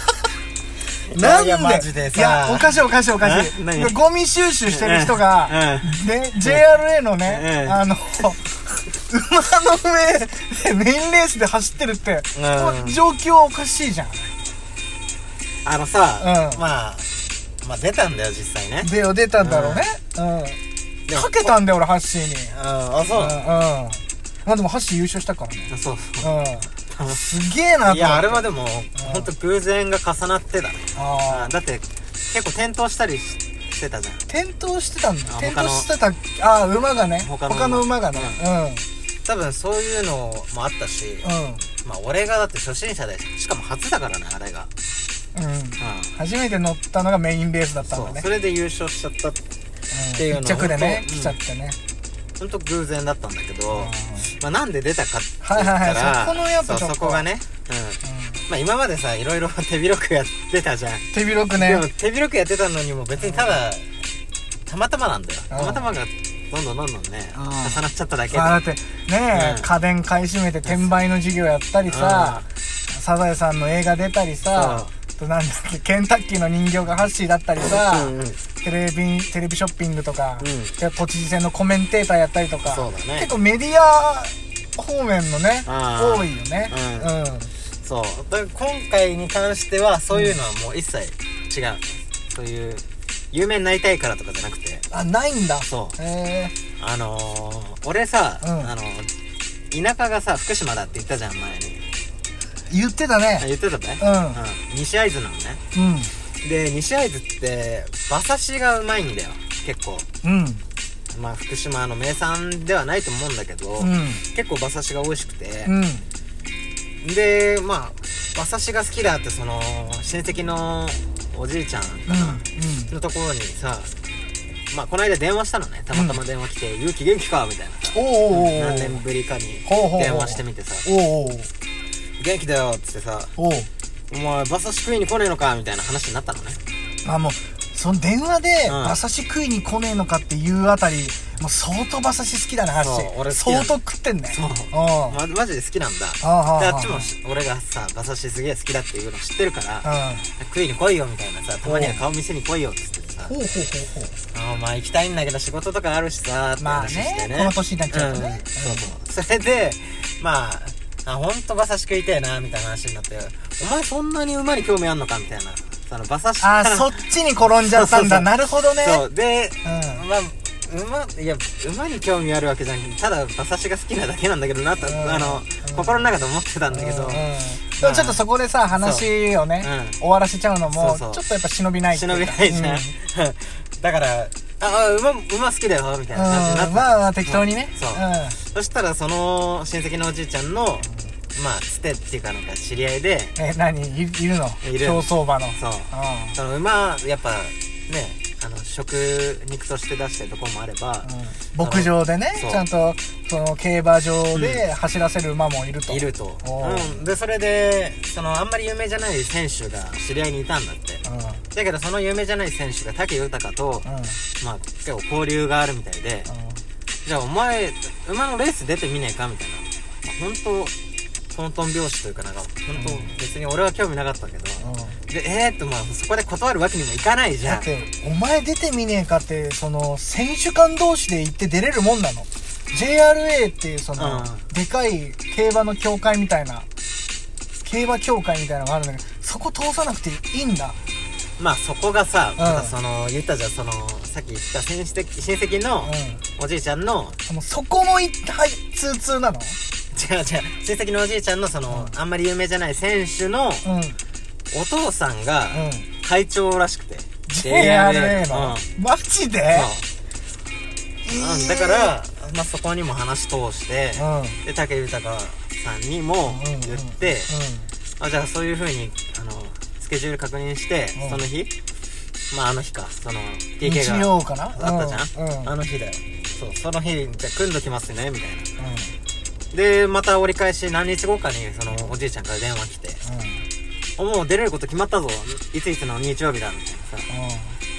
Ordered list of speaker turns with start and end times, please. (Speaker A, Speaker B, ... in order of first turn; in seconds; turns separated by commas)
Speaker A: 1.1-3.9, Speaker B: 1.1-14.3, Speaker A: 4.7-6.6, Speaker A: 7.2-7.8, Speaker A: 12.3-13.0, Speaker A: 15.6-17.1, Speaker B: 16.2-16.6, Speaker A: 17.6-19.9, Speaker B: 18.8-20.6, Speaker A: 21.1-21.5, Speaker B: 21.1-22.5, Speaker A: 22.5-23.4, Speaker B: 23.1-25.7, Speaker A: 25.7-26.3, Speaker B: 26.2-28.4, Speaker A: 26.9-27.2, Speaker A: 27.9-34.2, Speaker B: 28.9-29.3, Speaker B: 30.9-31.5, Speaker B: 34.3-38.9, Speaker A: 35.3-35.9, Speaker A: 37.2-38.4, Speaker A: 39.2-41.3, Speaker B: 41.2-41.7, Speaker A: 41.8-44.7, Speaker B: 45.3-48.3, Speaker A: 45.8-46.1, Speaker A: 47.8-49.4, Speaker B: 49.9-51.8, Speaker A: 50.1-51.4, Speaker A: 52.4-63.9, Speaker B: 53.7-54.3, Speaker B: 55.4-57.2, Speaker B: 58.0-58.4, Speaker B: 61.1-61.8, Speaker B: 63.2-63.6, Speaker A: 64.7-68.5, Speaker B: 65.5-65.9, Speaker B: 67.3-87.5, Speaker A: 69.3-69.7, Speaker A: 71.9-72.4, Speaker A: 74.5-74.9, Speaker A: 77.6-78.4, Speaker A: 80.4-80.8, Speaker A: 82.6-83.3, Speaker A: 85.7-87.1, Speaker A: 87.8-94.8, Speaker B: 94.9-96.5, Speaker A: 95.6-96.0, Speaker A: 96.8-99.1, Speaker B: 98.4-98.7, Speaker A: 99.7-101.8, Speaker B: 102.7-103.5, Speaker A: 103.4-105.6, Speaker B: 104.0-104.4, Speaker B: 105.7-106.1, Speaker A: 106.4-110.1, Speaker B: 110.2-110.6, Speaker A: 111.1-115.7, Speaker B: 113.8-114.2, Speaker B: 115.6-116.0, Speaker A: 117.0-123.9, Speaker B: 122.1-122.9, Speaker A: 124.7-130.8, Speaker B: 125.9-126.2, Speaker B: 127.9-129.0, Speaker B: 129.6-131.5, Speaker A: 132.2-133.3, Speaker B: 133.4-133.7, Speaker A: 134.1-136.6, Speaker B: 137.0-145.2, Speaker A: 138.7-139.0, Speaker A: 142.7-143.8, Speaker A: 144.3-153.3, Speaker B: 146.2-147.1, Speaker B: 149.8-150.3, Speaker B: 151.6-152.0, Speaker B: 153.3-154.2, Speaker A: 154.3-166.9, Speaker B: 156.6-158.9, Speaker B: 166.4-169.0, Speaker A: 167.4-178.2, Speaker B: 169.6-170.0, Speaker B: 174.8-176.1, Speaker B: 176.7-182.9, Speaker A: 178.8-180.0, Speaker A: 180.7-181.2, Speaker A: 181.9-193.4, Speaker B: 186.1-188.4, Speaker B: 190.8-191.1, Speaker B: 193.3-196.4, Speaker A: 194.6-201.1, Speaker B: 201.0-207.0, Speaker A: 201.6-202.6, Speaker A: 204.3-204.6, Speaker A: 205.9-213.9, Speaker B: 211.0-211.4, Speaker B: 213.8-214.2, Speaker A: 214.4-216.3, Speaker B: 216.3-216.6, Speaker A: 217.0-220.7, Speaker A: 221.3-227.7, Speaker B: 222.8-223.1, Speaker B: 224.6-225.0, Speaker B: 227.4-236.7, Speaker A: 234.0-234.4, Speaker B: 237.6-240.8, Speaker A: 241.4-247.2, Speaker B: 242.4-242.7, Speaker B: 245.8-246.2, Speaker B: 247.3-249.6, Speaker A: 249.9-253.7, Speaker B: 251.7-251.9, Speaker B: 253.6-254.0, Speaker A: 254.5-258.7, Speaker B: 255.5-255.9, Speaker B: 257.3-259.7, Speaker A: 259.5-259.9, Speaker B: 261.0-261.9, Speaker A: 261.1-267.3, Speaker B: 263.9-264.4, Speaker B: 266.3-267.7, Speaker A: 268.0-271.5, Speaker B: 270.9-271.2, Speaker A: 272.3-278.5, Speaker B: 273.6-275.5, Speaker B: 278.6-278.9, Speaker A: 279.5-283.0, Speaker B: 283.0-283.4, Speaker A: 284.0-287.1, Speaker B: 287.1-287.6